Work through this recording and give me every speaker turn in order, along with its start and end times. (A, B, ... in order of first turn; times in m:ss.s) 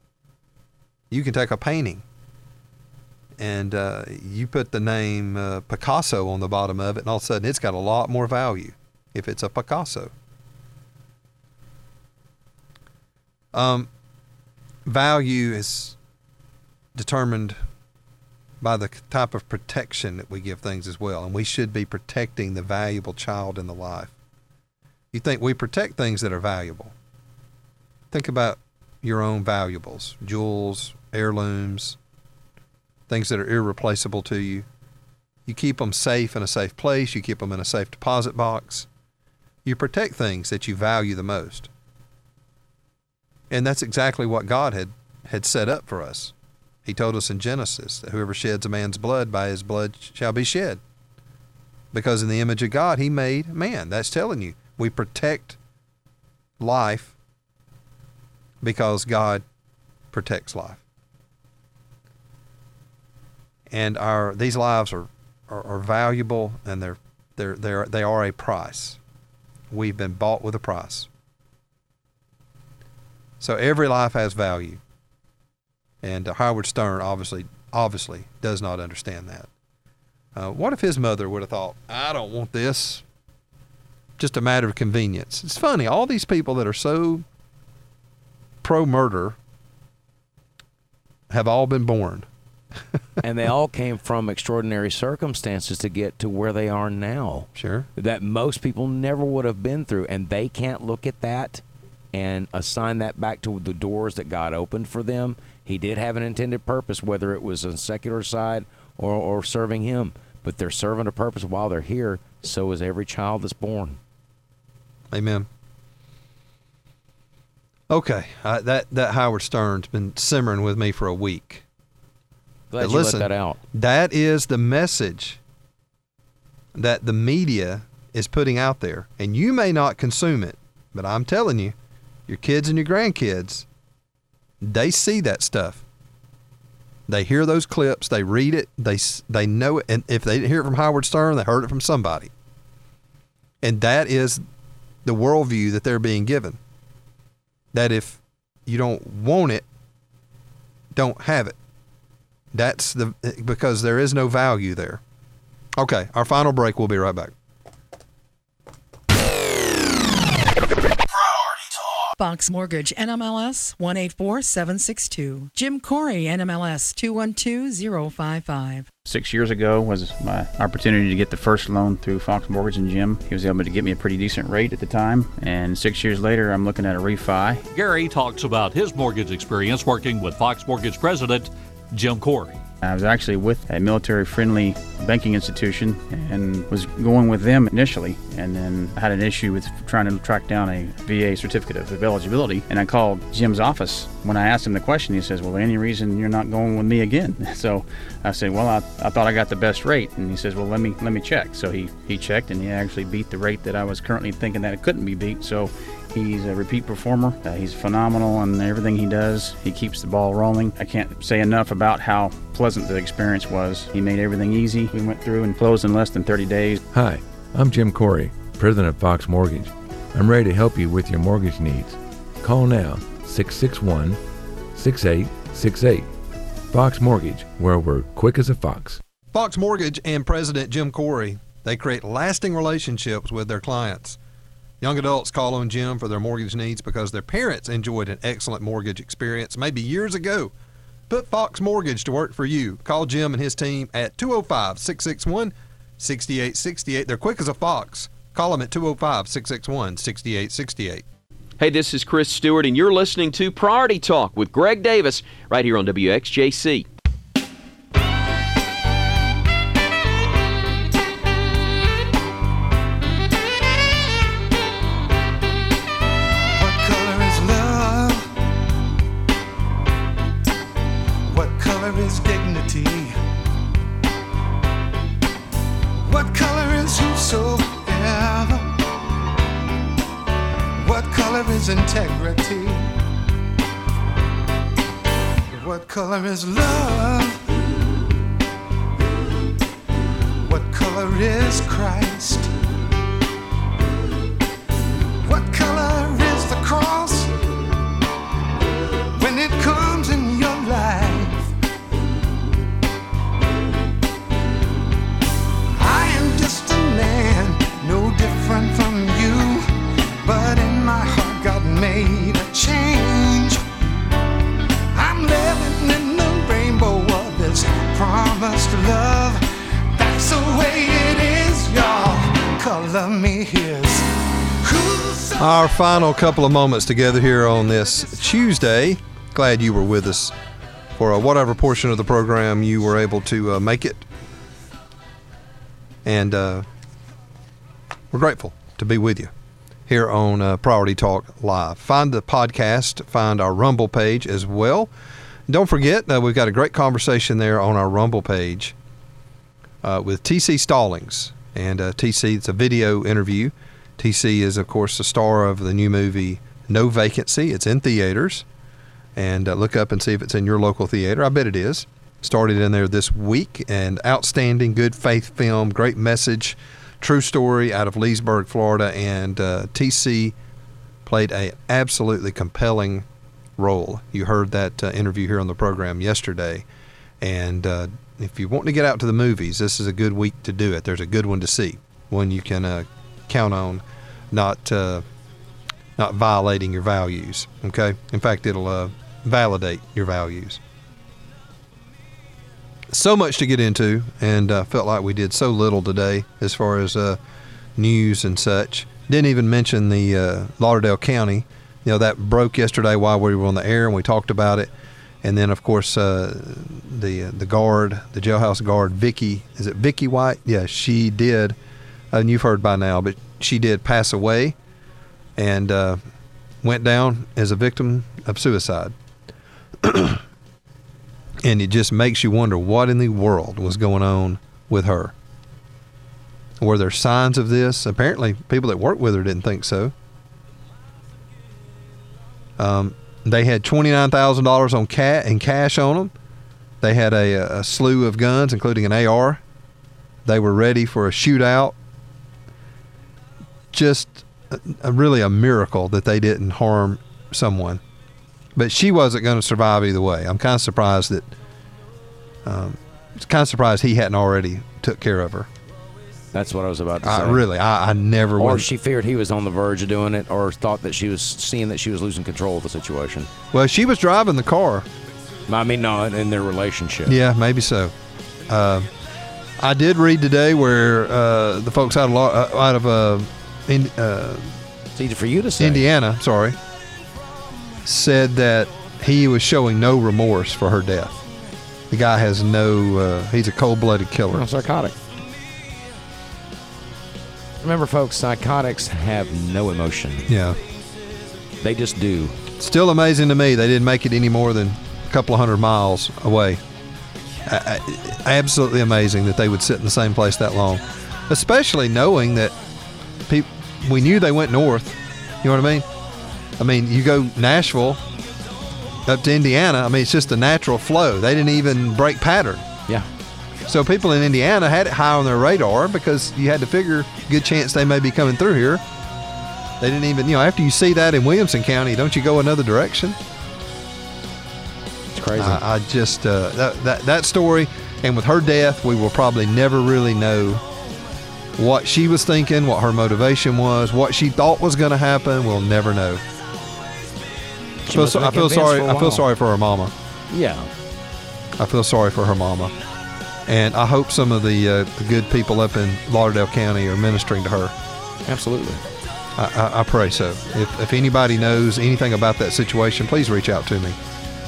0:01.1-0:02.0 A
0:03.4-0:10.1 A
0:13.5-0:13.9 A
0:14.9-0:16.0 A
0:17.0-0:17.6 A
0:18.6-0:24.1 A
0:25.1-0:26.9 A
0:28.1-0:32.0 A
0:33.1-0:34.7 A
0:35.5-0:38.9 A
0:39.6-0:41.7 A
0:43.5-0:46.3 A
0:46.8-0:50.8 A
0:51.9-0:55.6 A
0:56.6-0:57.2 A
0:58.6-0:59.4 A
1:00.1-1:00.8 A
1:03.7-1:09.0 A
1:09.7-1:11.1 A
1:13.4-1:14.8 A
1:16.0-1:19.5 A
1:20.4-1:23.0 A
1:24.2-1:27.2 A
1:28.6-1:29.4 A
1:31.3-1:32.3 A
1:33.2-1:41.6 B
1:37.6-1:37.9 A
1:42.1-1:54.0 B
1:55.1-1:55.5 A
1:57.9-2:01.6 A
2:02.7-2:03.6 B
2:02.8-2:05.4 A
2:06.8-2:11.8 A
2:12.3-2:13.7 A
2:14.6-2:15.8 A
2:17.1-2:22.3 A
2:23.6-2:24.4 A
2:25.0-2:26.6 A
2:27.7-2:29.7 A
2:30.9-2:31.6 A
2:32.5-2:35.0 A
2:35.8-2:37.3 A
2:42.2-2:48.9 C
2:49.0-2:57.6 D
2:57.7-3:02.6 E
3:02.8-3:36.8 D
3:36.9-3:44.2 F
3:44.8-3:46.1 F
3:46.7-3:49.0 F
3:49.3-3:54.2 A
3:54.8-4:00.5 A
4:01.1-4:11.0 A
4:11.6-4:16.9 G
4:26.6-4:28.3 H
4:31.3-4:33.2 H
4:36.0-4:38.7 H
4:40.8-4:42.9 H
4:45.5-4:47.4 H
4:50.4-4:52.5 H
4:55.2-4:57.4 H
4:59.2-5:01.5 H
5:05.8-5:13.6 H
5:14.9-5:25.7 H
5:25.4-5:30.4 A
5:31.0-5:34.1 A
5:36.0-5:36.7 A
5:38.1-5:39.3 A
5:39.9-5:44.9 A
5:45.5-5:48.8 A
5:49.8-5:58.5 A
5:59.2-6:10.4 A
6:11.0-6:13.1 A
6:13.6-6:16.7 A
6:17.2-6:25.0 A
6:26.0-6:30.6 A
6:32.9-6:37.2 A
6:37.8-6:44.7 A
6:45.2-6:51.6 A
6:52.1-6:54.6 A
6:55.4-6:56.0 A
6:56.6-6:59.0 A
6:59.8-7:00.2 A
7:01.4-7:05.1 A
7:06.6-7:09.9 A
7:12.6-7:16.1 A
7:16.8-7:19.4 A
7:20.2-7:21.8 A
7:23.7-7:27.8 A
7:28.6-7:31.4 A
7:32.4-7:35.5 A
7:36.3-7:37.4 B
7:37.0-7:38.7 A
7:38.4-7:43.3 B
7:43.5-7:44.9 A
7:45.5-7:47.2 B
7:47.1-7:47.9 A
7:48.5-7:48.9 A
7:49.6-7:54.6 A
7:55.0-7:55.8 B
7:55.6-7:56.6 A
7:57.8-8:01.2 A
8:01.9-8:04.5 A
8:04.3-8:05.0 B
8:07.6-8:10.3 B
8:10.3-8:10.6 A
8:11.6-8:12.4 B
8:12.6-8:16.6 A
8:17.5-8:22.6 A
8:23.3-8:25.9 A
8:26.6-8:28.0 A
8:29.1-8:32.6 A
8:33.7-8:38.8 A
8:39.8-8:43.2 A
8:45.2-8:45.6 B
8:45.4-8:50.6 A
8:51.6-8:56.2 A
8:57.9-8:59.3 B
8:57.9-8:59.9 A
9:00.3-9:00.7 B
9:01.6-9:02.7 A
9:03.5-9:07.8 A
9:08.3-9:08.8 B
9:09.4-9:14.0 A